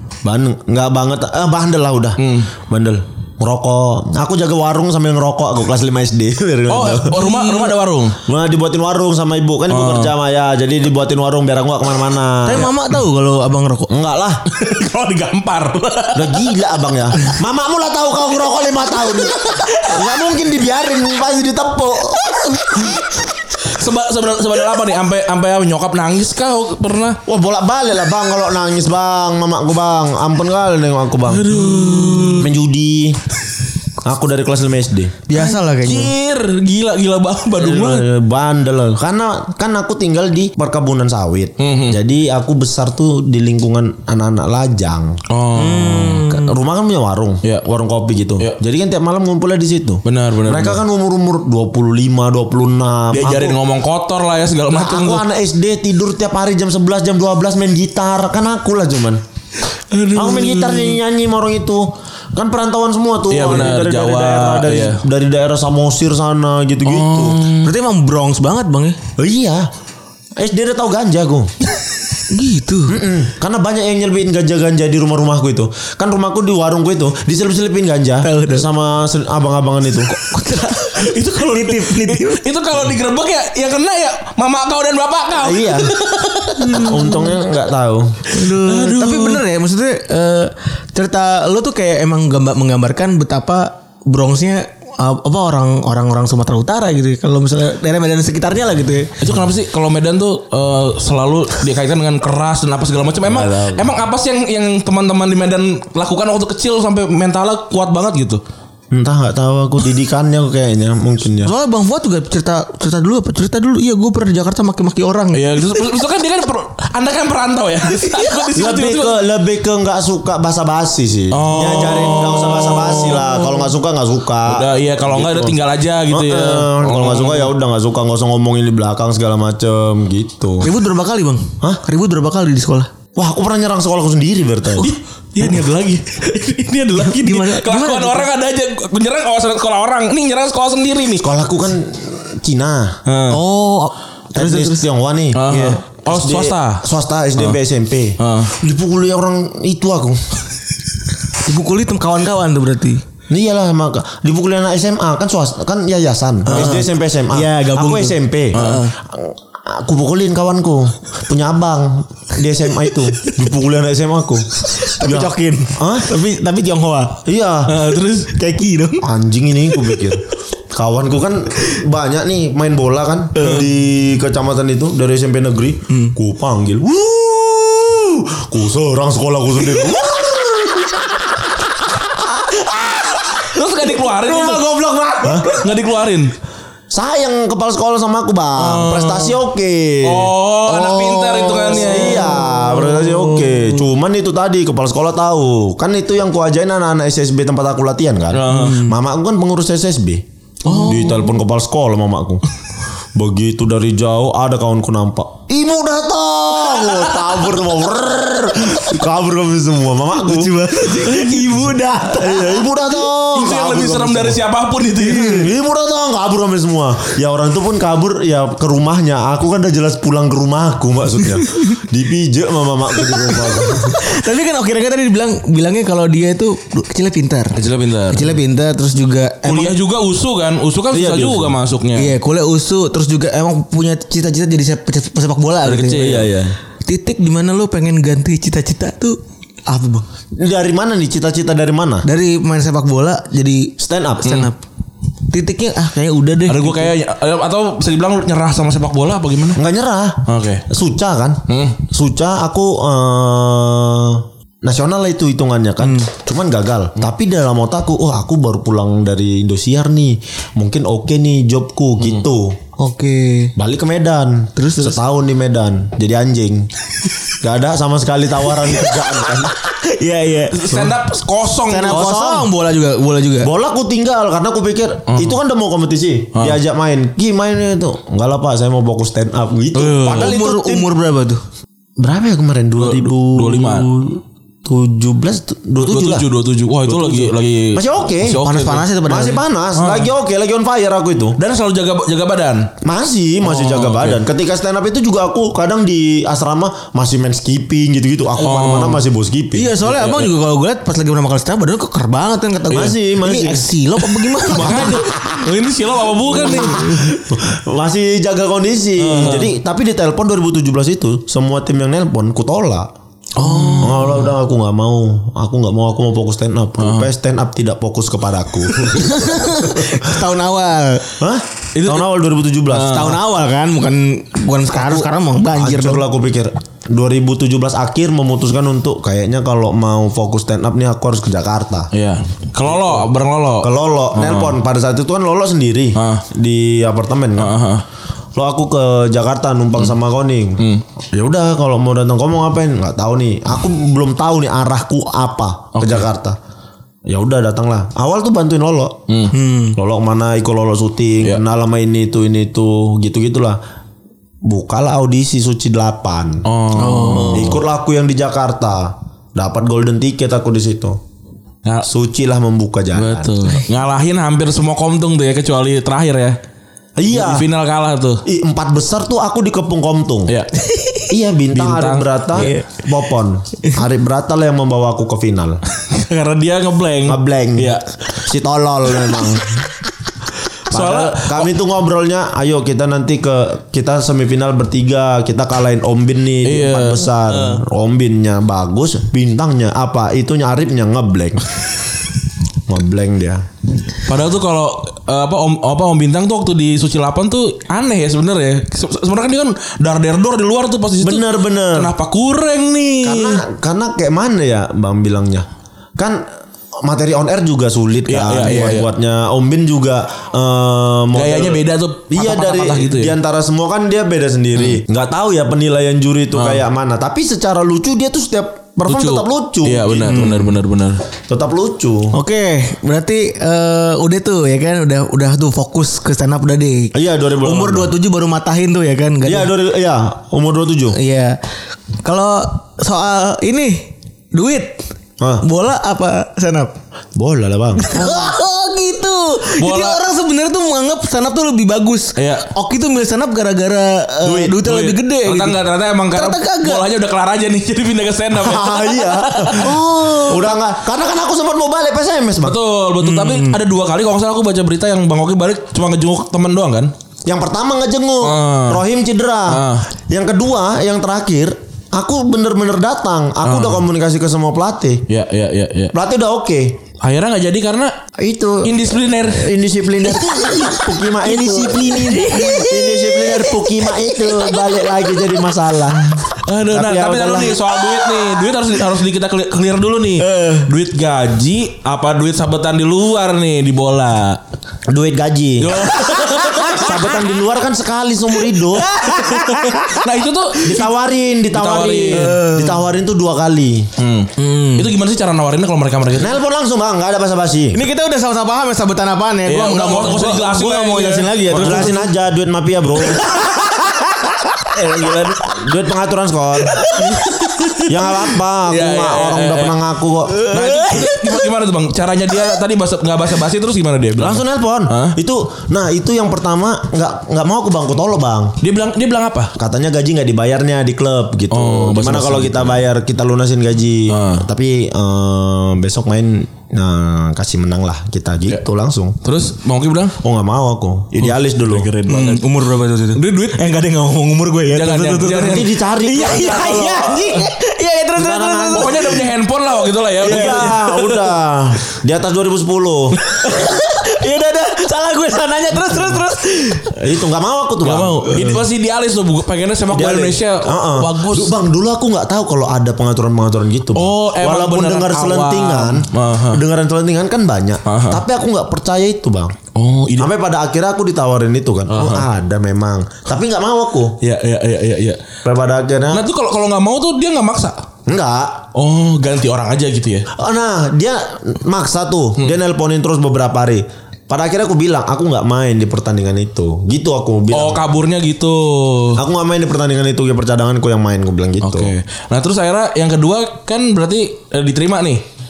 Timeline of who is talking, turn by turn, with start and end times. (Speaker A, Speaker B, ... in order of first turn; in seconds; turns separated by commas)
Speaker A: 0.2-7.7, Speaker B: 2.2-2.5, Speaker B: 6.7-8.2, Speaker A: 8.3-12.7, Speaker B: 9.7-10.1, Speaker C: 12.4-13.9, Speaker A: 13.9-14.4, Speaker B: 14.5-16.5, Speaker A: 16.1-23.0, Speaker B: 23.6-27.2, Speaker A: 27.3-31.6, Speaker B: 31.3-32.5, Speaker A: 32.4-33.2, Speaker A: 34.0-35.2, Speaker C: 35.3-36.1, Speaker B: 35.4-38.1, Speaker A: 37.6-45.2, Speaker B: 41.6-42.0, Speaker B: 45.3-46.2, Speaker C: 45.5-46.5, Speaker A: 46.1-53.6, Speaker B: 50.0-50.8, Speaker B: 53.1-55.2, Speaker A: 54.7-59.2, Speaker B: 59.9-61.0, Speaker A: 60.1-67.4, Speaker B: 63.3-65.0, Speaker B: 66.8-67.7, Speaker C: 67.6-69.0, Speaker A: 69.2-69.7, Speaker A: 70.4-71.5, Speaker C: 72.3-73.0, Speaker A: 72.9-80.2, Speaker C: 78.2-78.7, Speaker C: 80.1-82.4, Speaker B: 80.9-87.1, Speaker A: 85.4-85.9, Speaker C: 86.6-87.3, Speaker A: 86.7-88.3, Speaker C: 88.3-99.2, Speaker B: 88.4-89.4, Speaker B: 99.2-108.4, Speaker A: 103.2-103.9, Speaker A: 108.9-111.5, Speaker C: 111.4-115.7, Speaker B: 115.3-119.2, Speaker C: 118.0-118.5, Speaker A: 118.5-125.5, Speaker B: 121.3-123.5, Speaker B: 124.5-127.5, Speaker A: 126.1-130.7, Speaker C: 130.6-132.9, Speaker A: 133.1-134.9, Speaker B: 134.8-141.3, Speaker C: 136.9-138.3, Speaker A: 141.2-143.0, Speaker B: 143.1-143.4, Speaker C: 143.3-144.9, Speaker A: 144.3-150.3, Speaker B: 145.3-146.8, Speaker B: 148.2-148.5, Speaker C: 151.4-153.0, Speaker A: 153.3-166.1, Speaker C: 156.4-158.9, Speaker B: 158.5-158.8, Speaker C: 164.7-167.2, Speaker A: 167.2-167.8, Speaker B: 167.7-168.3, Speaker C: 168.3-169.0, Speaker A: 169.0-183.2, Speaker C: 173.4-173.6, Speaker C: 175.9-176.1, Speaker B: 183.4-184.7, Speaker C: 184.2-185.6, Speaker A: 185.2-185.5, Speaker B: 185.4-186.3, Speaker A: 186.9-190.3, Speaker B: 188.6-189.4, Speaker B: 190.0-192.4, Speaker C: 190.7-193.0, Speaker A: 191.7-202.4, Speaker B: 198.3-198.8, Speaker C: 198.5-198.9, Speaker C: 200.6-201.2, Speaker A: 203.2-210.6, Speaker C: 210.2-212.6, Speaker B: 211.1-211.5, Speaker A: 212.1-214.4, Speaker B: 213.3-215.5, Speaker A: 215.0-224.0, Speaker C: 223.2-229.8, Speaker B: 227.6-228.4, Speaker B: 229.4-232.1, Speaker A: 230.9-231.6, Speaker C: 231.9-236.2, Speaker B: 235.6-236.2, Speaker A: 235.9-236.6, Speaker C: 236.8-240.1, Speaker A: 240.4-242.1, Speaker C: 242.0-244.6, Speaker A: 243.8-244.5, Speaker C: 245.3-246.9, Speaker B: 246.5-249.6, Speaker A: 249.6-262.6, Speaker B: 250.3-250.7, Speaker B: 251.5-251.8, Speaker C: 262.8-263.5, Speaker A: 263.6-266.7, Speaker C: 264.6-265.0, Speaker A: 267.4-269.5, Speaker C: 269.7-270.9, Speaker B: 270.5-272.1, Speaker C: 271.7-273.5, Speaker A: 271.9-272.5, Speaker A: 273.4-280.9, Speaker B: 275.1-275.4, Speaker B: 279.8-280.4, Speaker C: 279.9-281.4, Speaker A: 282.0-286.3, Speaker B: 282.8-283.9, Speaker B: 285.8-288.9, Speaker A: 286.9-288.4, Speaker C: 288.4-289.4, Speaker A: 289.1-291.4, Speaker B: 289.8-290.1, Speaker B: 291.4-292.7, Speaker A: 292.8-299.7, Speaker B: 293.4-294.2, Speaker B: 298.4-299.0, Speaker C: 299.5-305.1, Speaker B: 299.9-300.3, Speaker A: 302.7-303.7, Speaker B: 304.4-307.1, Speaker C: 306.3-307.1, Speaker A: 306.6-312.9, Speaker B: 309.0-309.5, Speaker C: 313.4-314.2, Speaker B: 313.4-314.1, Speaker A: 313.8-320.1, Speaker B: 316.8-317.1, Speaker C: 318.9-321.1, Speaker A: 321.2-323.2, Speaker B: 321.7-322.1, Speaker B: 322.7-323.2, Speaker C: 322.9-326.1, Speaker A: 324.7-331.9, Speaker B: 331.9-334.6, Speaker A: 332.7-333.1, Speaker A: 333.6-337.6, Speaker B: 335.9-336.2, Speaker B: 337.4-337.8, Speaker A: 338.4-346.4, Speaker B: 345.7-346.1, Speaker A: 347.1-349.0, Speaker B: 349.1-349.3, Speaker C: 349.3-349.8, Speaker A: 349.7-353.6, Speaker A: 354.4-356.5, Speaker B: 356.4-357.6, Speaker C: 356.7-357.6, Speaker A: 357.3-361.0, Speaker A: 361.9-363.4, Speaker B: 362.9-366.4, Speaker A: 367.0-367.5, Speaker B: 367.1-368.2, Speaker A: 368.2-370.3, Speaker A: 371.1-375.6, Speaker B: 371.5-372.5, Speaker C: 372.4-372.6, Speaker B: 375.9-377.9, Speaker A: 377.1-379.7, Speaker B: 380.7-381.5, Speaker A: 380.7-391.7, Speaker B: 386.4-387.6, Speaker A: 392.7-393.4, Speaker B: 394.1-403.4, Speaker A: 401.0-401.9, Speaker A: 403.0-405.4, Speaker A: 406.0-406.3, Speaker A: 406.8-420.3, Speaker B: 408.1-408.9, Speaker B: 411.1-413.2, Speaker B: 416.3-416.6, Speaker B: 418.9-421.0, Speaker C: 420.0-420.5, Speaker A: 421.3-422.1, Speaker C: 422.1-429.5, Speaker A: 426.9-427.9, Speaker A: 429.2-430.9, Speaker C: 430.9-431.4, Speaker C: 432.0-434.9, Speaker C: 435.4-436.7, Speaker A: 437.2-438.3, Speaker C: 437.8-445.6, Speaker B: 439.6-440.0, Speaker B: 442.2-442.4, Speaker A: 444.3-444.5, Speaker B: 444.5-449.7, Speaker C: 446.1-446.9, Speaker A: 448.4-452.6, Speaker C: 449.4-450.6, Speaker B: 452.4-456.9, Speaker C: 453.0-453.6, Speaker A: 457.3-465.1, Speaker B: 458.2-458.8, Speaker B: 459.5-459.9, Speaker B: 463.4-463.8, Speaker B: 465.1-465.9, Speaker A: 465.9-466.8, Speaker B: 467.0-467.9, Speaker A: 468.2-477.6, Speaker B: 468.6-469.5, Speaker C: 470.3-474.6, Speaker B: 476.4-484.4, Speaker C: 480.2-480.7, Speaker A: 484.9-485.9, Speaker B: 485.6-486.9, Speaker C: 486.0-486.9, Speaker A: 486.7-488.9, Speaker C: 488.7-490.1, Speaker B: 489.2-490.9, Speaker A: 490.6-493.9, Speaker B: 491.5-492.4, Speaker C: 492.1-492.8, Speaker B: 494.0-496.4, Speaker C: 494.4-494.9, Speaker A: 496.2-497.8, Speaker C: 497.7-502.1, Speaker B: 499.4-501.9, Speaker A: 501.5-503.3, Speaker C: 503.4-505.3, Speaker A: 505.4-506.8, Speaker C: 506.8-507.3, Speaker B: 506.9-508.0, Speaker A: 507.9-510.9, Speaker B: 508.7-509.8, Speaker C: 510.3-511.4, Speaker B: 510.5-515.2, Speaker A: 514.2-518.6, Speaker B: 518.6-519.5, Speaker A: 519.5-529.2, Speaker B: 521.5-522.8, Speaker B: 524.1-524.5, Speaker B: 529.2-530.2, Speaker A: 530.2-531.9, Speaker B: 531.2-532.4, Speaker C: 532.1-539.2, Speaker B: 533.1-533.8, Speaker B: 534.7-535.7, Speaker A: 535.4-537.4, Speaker A: 538.2-539.2, Speaker B: 538.7-541.0, Speaker A: 540.2-543.2, Speaker C: 540.3-541.1, Speaker C: 543.3-546.9, Speaker A: 547.0-548.6, Speaker B: 547.8-551.6, Speaker A: 549.9-559.5, Speaker B: 553.9-556.6, Speaker B: 557.9-558.2, Speaker B: 559.7-560.3, Speaker A: 560.2-564.2, Speaker B: 561.9-562.3, Speaker B: 564.2-565.2, Speaker A: 565.4-566.3, Speaker B: 566.1-567.8, Speaker A: 568.1-568.6, Speaker B: 568.7-570.3, Speaker A: 570.4-577.8, Speaker B: 577.5-579.2, Speaker A: 579.2-581.9, Speaker B: 581.6-585.2